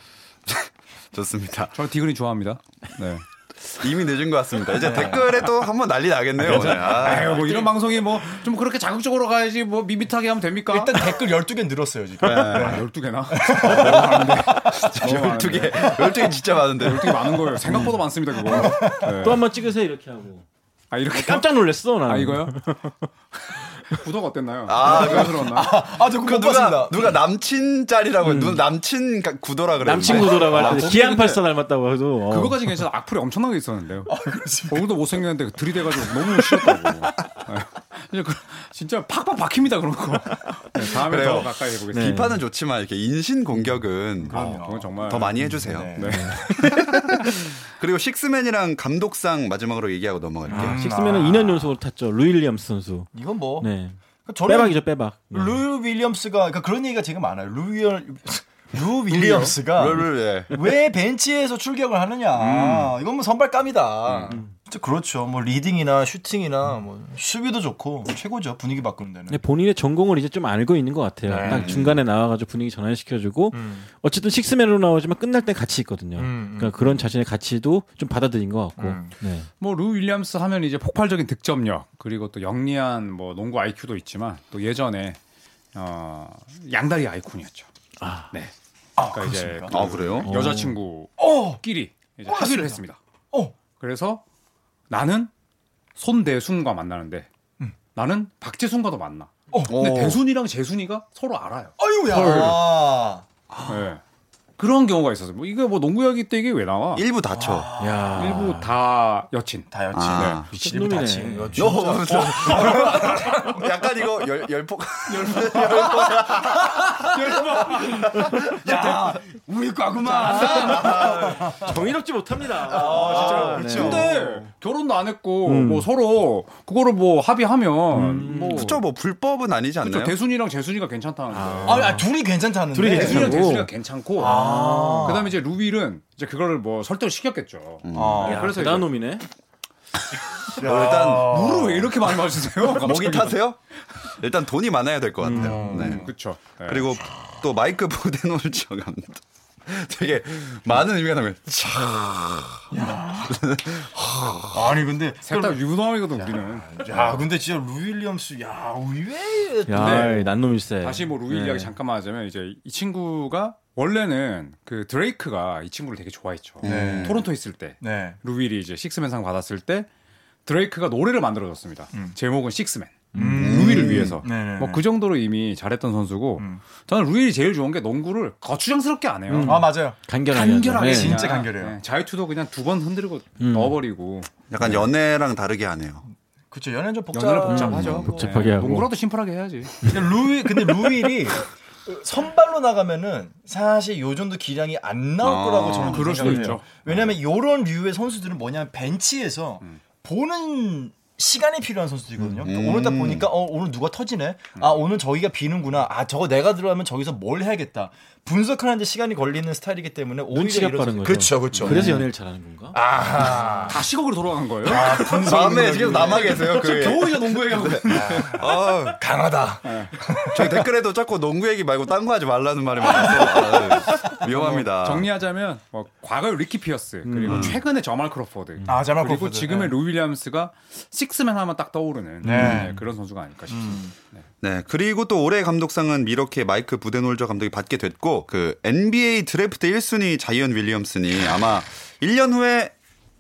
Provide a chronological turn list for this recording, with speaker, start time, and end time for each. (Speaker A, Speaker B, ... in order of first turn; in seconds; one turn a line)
Speaker A: 0.5-1.8
Speaker B: 1.7-3.2
Speaker A: 3.6-7.4
Speaker C: 4.8-5.2
Speaker B: 6.4-11.2
Speaker C: 7.0-7.7
Speaker C: 10.7-15.3
Speaker A: 12.2-12.8
Speaker B: 12.2-16.0
Speaker A: 13.8-17.6
Speaker B: 16.8-19.4
Speaker D: 17.7-17.9
Speaker C: 18.4-19.4
Speaker D: 18.5-20.4
Speaker B: 20.9-21.5
Speaker D: 21.1-22.9
Speaker B: 22.0-22.8
Speaker B: 23.4-25.9
Speaker A: 24.6-30.8
Speaker C: 24.8-27.1
Speaker D: 28.2-28.6
Speaker D: 29.8-32.8
Speaker C: 30.0-30.8
Speaker B: 30.1-31.4
Speaker B: 32.3-34.1
Speaker C: 34.1-34.9
Speaker B: 34.7-42.2
Speaker C: 35.9-36.9
Speaker A: 41.0-50.9
Speaker D: 41.9-42.4
Speaker C: 44.2-46.8
Speaker B: 44.3-46.9
Speaker D: 46.1-46.8
Speaker C: 50.5-51.7
Speaker D: 50.5-55.6
Speaker C: 53.1-53.7
Speaker C: 54.2-54.8
Speaker C: 55.3-69.4
Speaker B: 59.1-59.6
Speaker A: 59.7-60.5
Speaker B: 62.3-63.0
Speaker A: 64.0-64.4
Speaker D: 69.3-79.5
Speaker C: 71.2-71.8
Speaker A: 71.4-72.0
Speaker C: 73.5-73.8
Speaker C: 76.2-77.0
Speaker C: 78.8-79.1
Speaker B: 79.6-85.2
Speaker B: 85.7-87.7
Speaker D: 88.0-88.3
Speaker B: 88.3-93.0
Speaker C: 89.0-89.9
Speaker A: 89.7-90.3
Speaker D: 90.2-90.8
Speaker C: 91.2-91.6
Speaker C: 92.3-92.8
Speaker B: 93.8-94.2
Speaker B: 94.9-95.3
Speaker B: 96.0-97.3
Speaker B: 97.9-102.6
Speaker C: 99.5-99.8
Speaker A: 99.7-100.2
Speaker C: 101.8-103.2
Speaker A: 103.5-103.8
Speaker B: 103.7-104.0
Speaker B: 104.6-107.0
Speaker A: 106.9-107.7
Speaker C: 107.3-108.5
Speaker D: 107.8-108.7
Speaker B: 108.1-110.8
Speaker C: 109.7-113.7
Speaker A: 109.9-110.5
Speaker D: 110.6-111.5
Speaker A: 111.5-119.1
Speaker C: 115.1-121.8
Speaker B: 115.3-119.1
Speaker A: 120.0-121.7
Speaker B: 120.3-120.9
Speaker D: 120.4-124.1
Speaker C: 122.6-124.5
Speaker A: 122.7-124.1
Speaker B: 122.8-128.8
Speaker D: 125.4-125.9
Speaker D: 127.9-128.7
Speaker A: 128.5-130.1
Speaker B: 129.8-132.0
Speaker D: 131.3-132.1
Speaker C: 131.7-133.5
Speaker D: 132.7-135.2
Speaker B: 132.9-134.5
Speaker C: 134.2-135.3
Speaker B: 135.0-138.9
Speaker A: 137.8-138.4
Speaker C: 137.9-138.5
Speaker D: 138.2-139.2
Speaker B: 140.5-143.4
Speaker C: 140.6-141.8
Speaker A: 140.6-141.8
Speaker A: 142.7-143.6
Speaker A: 144.2-146.1
Speaker D: 145.2-145.7
Speaker C: 145.2-146.1
Speaker B: 145.6-146.9
Speaker A: 146.6-154.7
Speaker C: 152.7-155.6
Speaker B: 155.2-157.2
Speaker C: 156.2-160.1
Speaker D: 159.7-161.7
Speaker B: 159.7-169.9
Speaker A: 166.6-167.2
Speaker C: 166.6-167.2
Speaker C: 167.8-168.2
Speaker B: 170.4-179.7
Speaker D: 173.1-173.6
Speaker C: 173.1-174.8
Speaker A: 173.4-174.2
Speaker D: 179.3-181.3
Speaker C: 179.4-180.0
Speaker B: 180.3-184.3
Speaker C: 180.8-181.8
Speaker D: 183.4-183.7
Speaker A: 184.5-186.0
Speaker C: 186.5-188.4
Speaker B: 187.1-189.9
Speaker D: 187.5-188.9
Speaker A: 187.7-188.1
Speaker C: 189.8-212.0
Speaker A: 195.2-196.1
Speaker B: 195.6-196.9
Speaker D: 196.2-196.6
Speaker A: 202.4-203.3
Speaker D: 210.3-212.8
Speaker B: 211.5-211.9
Speaker C: 212.7-213.8
Speaker B: 213.7-218.4
Speaker C: 214.6-220.7
Speaker A: 214.7-219.0
Speaker B: 219.6-219.9
Speaker A: 220.3-225.1
Speaker C: 222.8-224.7
Speaker B: 224.7-234.2
Speaker D: 227.0-227.5
Speaker A: 227.2-227.6
Speaker C: 228.7-229.7
Speaker C: 232.2-232.8
Speaker D: 232.2-232.8
Speaker C: 233.5-233.9
Speaker A: 234.4-242.7